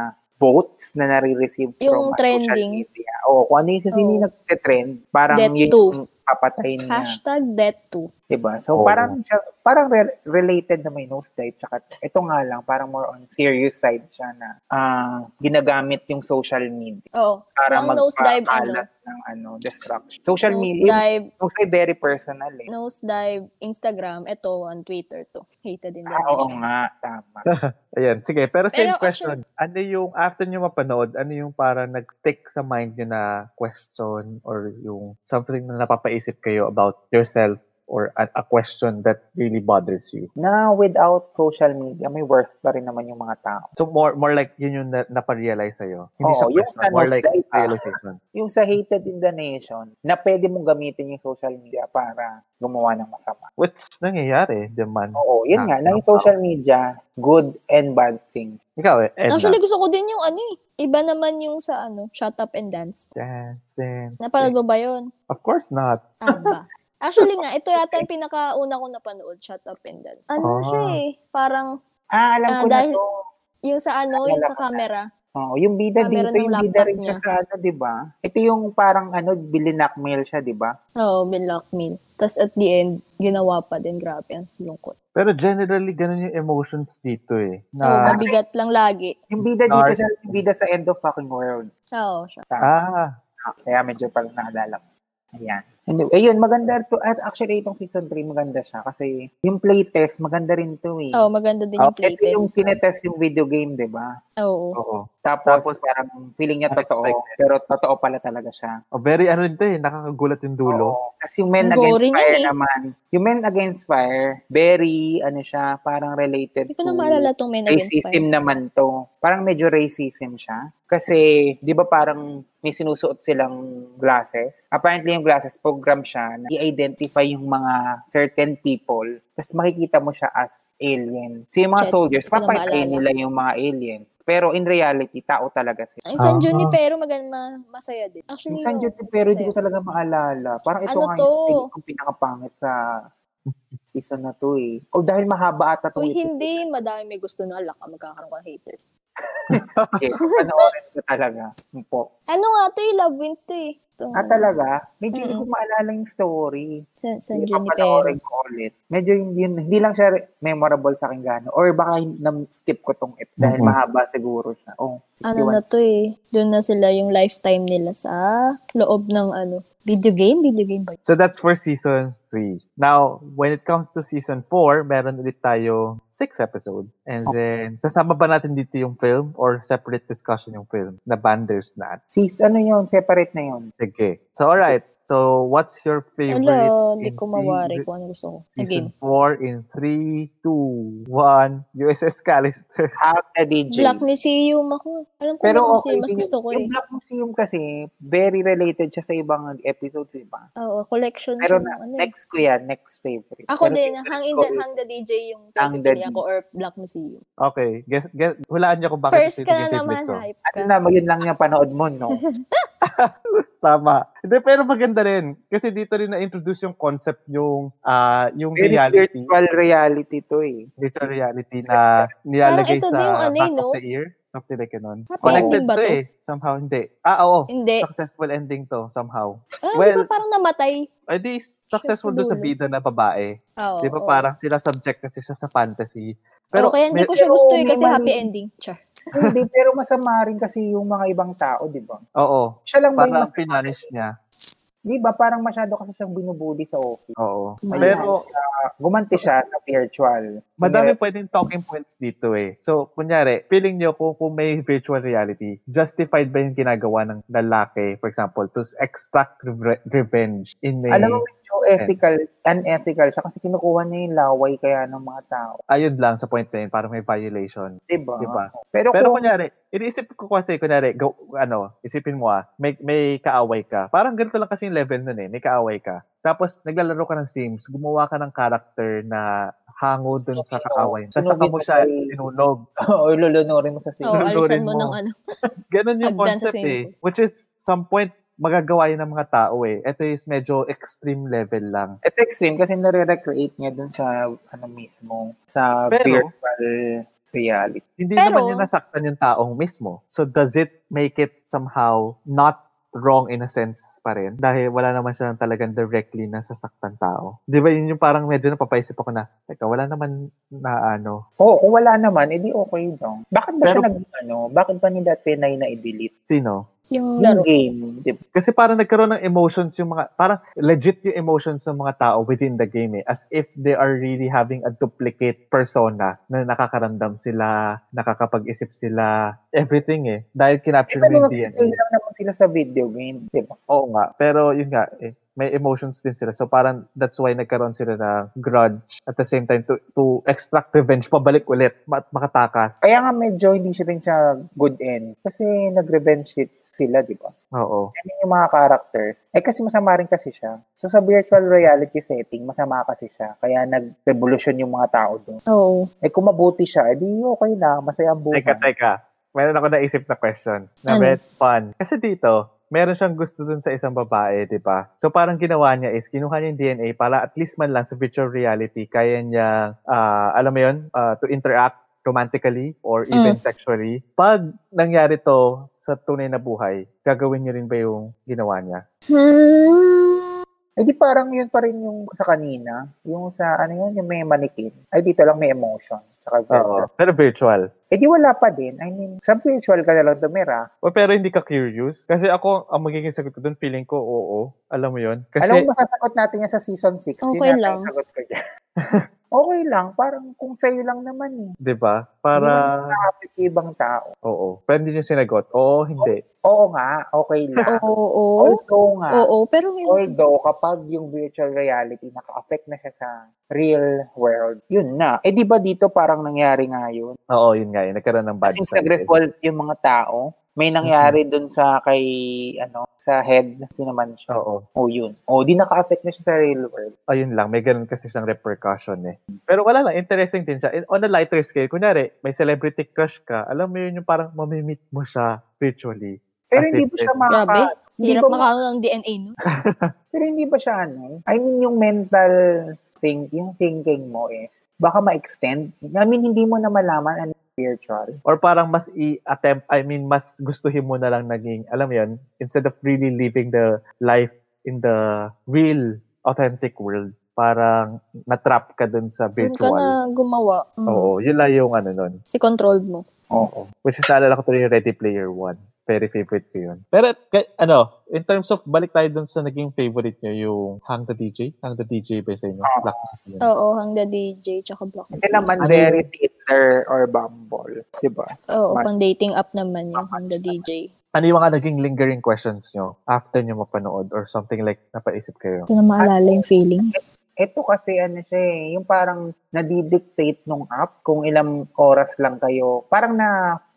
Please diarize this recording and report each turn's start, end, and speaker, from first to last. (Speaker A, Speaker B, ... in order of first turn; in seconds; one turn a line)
Speaker A: 0.4-7.1
Speaker B: 1.8-2.8
Speaker B: 3.9-4.2
Speaker B: 5.3-5.9
Speaker B: 6.9-8.1
Speaker A: 8.3-17.0
Speaker C: 8.8-9.1
Speaker B: 17.2-18.8
Speaker A: 17.6-22.7
Speaker B: 20.5-21.2
Speaker B: 22.7-26.6
Speaker A: 26.1-27.4
Speaker C: 27.4-40.3
Speaker B: 28.7-29.3
Speaker A: 40.4-43.7
Speaker C: 43.8-48.2
Speaker A: 46.2-53.4
Speaker C: 53.6-56.3
Speaker A: 55.2-58.6
Speaker C: 58.8-59.6
Speaker B: 59.3-63.0
Speaker C: 63.1-64.5
Speaker B: 64.2-65.0
Speaker C: 65.3-66.5
Speaker B: 66.2-71.7
Speaker C: 70.4-70.9
Speaker A: 72.1-73.0
Speaker B: 72.5-73.0
Speaker B: 73.7-75.0
Speaker A: 74.1-74.8
Speaker A: 75.3-80.7
Speaker B: 76.0-77.2
Speaker B: 81.0-84.9
Speaker C: 85.1-88.2
Speaker B: 87.8-89.1
Speaker A: 88.0-88.4
Speaker A: 89.3-91.7
Speaker C: 89.7-90.4
Speaker B: 92.0-92.4
Speaker C: 92.6-93.1
Speaker A: 93.4-94.9
Speaker A: 95.4-101.2
Speaker B: 101.1-102.6
Speaker A: 102.0-104.1
Speaker B: 104.4-104.8
Speaker C: 104.8-105.9
Speaker A: 105.2-108.8
Speaker C: 106.7-107.4
Speaker C: 108.9-110.9
Speaker A: 110.7-136.0
Speaker B: 111.6-112.5
Speaker B: 116.7-118.2
Speaker B: 131.8-133.0
Speaker B: 136.1-139.5
Speaker C: 136.2-136.7
Speaker A: 138.5-142.7
Speaker B: 140.9-141.7
Speaker C: 143.5-143.8
Speaker A: 143.9-146.5
Speaker B: 146.0-148.8
Speaker C: 149.5-150.0
Speaker A: 149.9-152.1
Speaker B: 150.2-150.6
Speaker B: 152.3-154.5
Speaker A: 154.1-156.7
Speaker B: 155.1-155.4
Speaker B: 157.0-158.2
Speaker A: 157.3-165.6
Speaker C: 163.4-163.7
Speaker B: 165.3-171.0
Speaker C: 171.0-182.0
Speaker A: 182.1-183.7
Speaker C: 183.8-187.8
Speaker B: 186.3-188.9
Speaker C: 188.5-192.9
Speaker A: 193.0-194.0
Speaker B: 193.7-196.7
Speaker A: 195.4-200.5
Speaker B: 200.6-202.1
Speaker A: 201.4-204.6
Speaker B: 203.5-207.2
Speaker A: 205.6-206.2
Speaker C: 207.4-210.2
Speaker B: 209.1-210.7
Speaker A: 210.5-212.2
Speaker B: 212.2-212.6
Speaker C: 212.8-219.3
Speaker A: 218.6-220.7
Speaker C: 220.8-230.0
Speaker A: 221.7-222.0
Speaker B: 222.4-223.7
Speaker B: 225.1-226.0
Speaker A: 225.2-225.6
Speaker B: 227.5-227.9
Speaker B: 229.7-230.9
Speaker C: 231.1-237.1
Speaker B: 231.7-232.5
Speaker B: 233.6-234.2
Speaker B: 236.6-238.8
Speaker A: 237.0-238.2
Speaker A: 239.2-242.0
Speaker C: 242.2-244.1
Speaker A: 242.7-243.8
Speaker A: 244.9-247.2
Speaker C: 247.2-248.2
Speaker B: 247.7-248.1
Speaker A: 247.7-250.9
Speaker C: 250.6-261.2
Speaker A: 260.9-265.6
Speaker C: 265.7-279.3
Speaker A: 267.9-269.2
Speaker C: 279.8-282.6
Speaker A: 280.4-282.1
Speaker A: 283.0-284.3
Speaker C: 284.1-284.9
Speaker B: 284.1-285.1
Speaker C: 285.7-292.0
Speaker B: 286.1-286.9
Speaker A: 292.0-296.6
Speaker C: 295.9-296.3
Speaker A: 297.3-297.8
Speaker C: 298.0-310.1
Speaker B: 298.2-298.6
Speaker C: 310.6-311.2
Speaker A: 311.4-316.1
Speaker C: 316.3-316.6
Speaker B: 316.9-317.5
Speaker A: 317.2-318.2
Speaker C: 318.3-331.8
Speaker A: 330.9-333.6
Speaker C: 333.7-342.7
Speaker A: 342.8-347.3
Speaker C: 347.6-347.9
Speaker A: 348.0-355.4
Speaker B: 355.5-355.9
Speaker A: 356.0-358.6
Speaker C: 358.3-378.8
Speaker B: 360.9-361.2
Speaker B: 379.1-380.3
Speaker A: 380.8-386.9
Speaker C: 386.5-387.6
Speaker A: 387.9-390.6
Speaker C: 390.8-395.7
Speaker A: 395.4-398.3
Speaker B: 397.2-397.9
Speaker A: 399.3-401.6
Speaker C: 401.6-402.9
Speaker A: 402.4-404.1
Speaker C: 404.2-406.2
Speaker A: 406.0-407.8
Speaker B: 407.6-408.6
Speaker A: 408.4-409.3
Speaker B: 409.1-410.1
Speaker A: 409.9-417.2
Speaker C: 417.3-419.1
Speaker A: 418.4-422.0
Speaker C: 420.8-421.1
Speaker A: 422.6-424.3
Speaker C: 424.3-424.6
Speaker A: 424.8-426.9
Speaker C: 427.1-437.2
Speaker A: 436.5-438.5
Speaker B: 437.3-439.4
Speaker C: 439.6-439.9
Speaker A: 440.1-442.3
Speaker A: 443.0-448.1
Speaker C: 448.2-459.9
Speaker B: 459.4-461.1
Speaker C: 460.9-462.2
Speaker B: 462.3-463.0
Speaker A: 463.3-463.7
Speaker C: 463.8-473.4
Speaker A: 472.7-473.0
Speaker B: 473.4-475.5
Speaker A: 475.1-478.9
Speaker C: 475.6-476.0
Speaker B: 478.5-480.9
Speaker A: 479.9-480.6
Speaker C: 481.1-485.7
Speaker B: 485.7-486.9
Speaker A: 486.0-493.3